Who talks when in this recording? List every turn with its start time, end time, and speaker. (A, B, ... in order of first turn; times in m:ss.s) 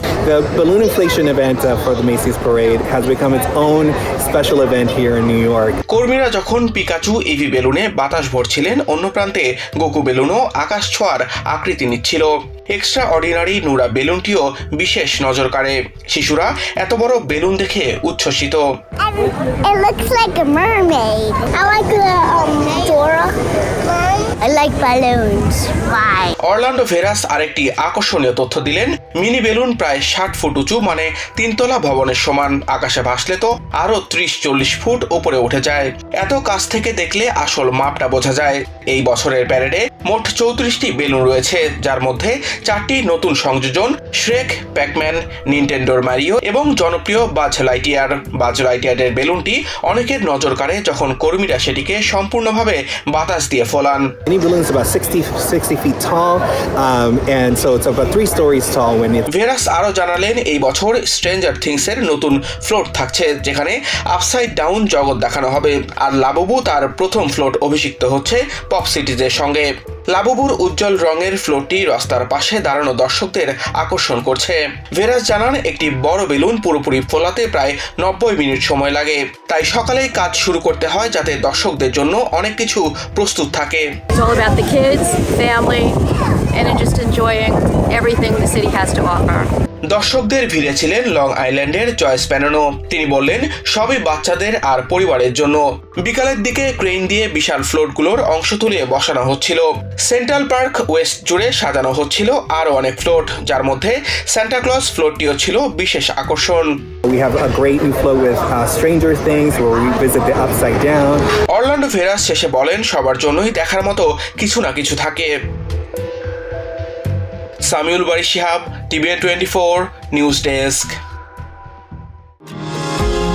0:00.3-0:05.8 A
0:05.9-0:18.6 B
0:19.0-0:26.3 C
0:26.4-0:54.0 B
0:54.3-0:59.3 A
0:59.3-1:23.9 B
1:24.2-1:26.0 D
1:26.5-1:29.5 D
1:29.9-1:46.7 B
1:47.1-1:51.2 A
1:51.5-1:55.3 B
1:57.7-2:00.9 B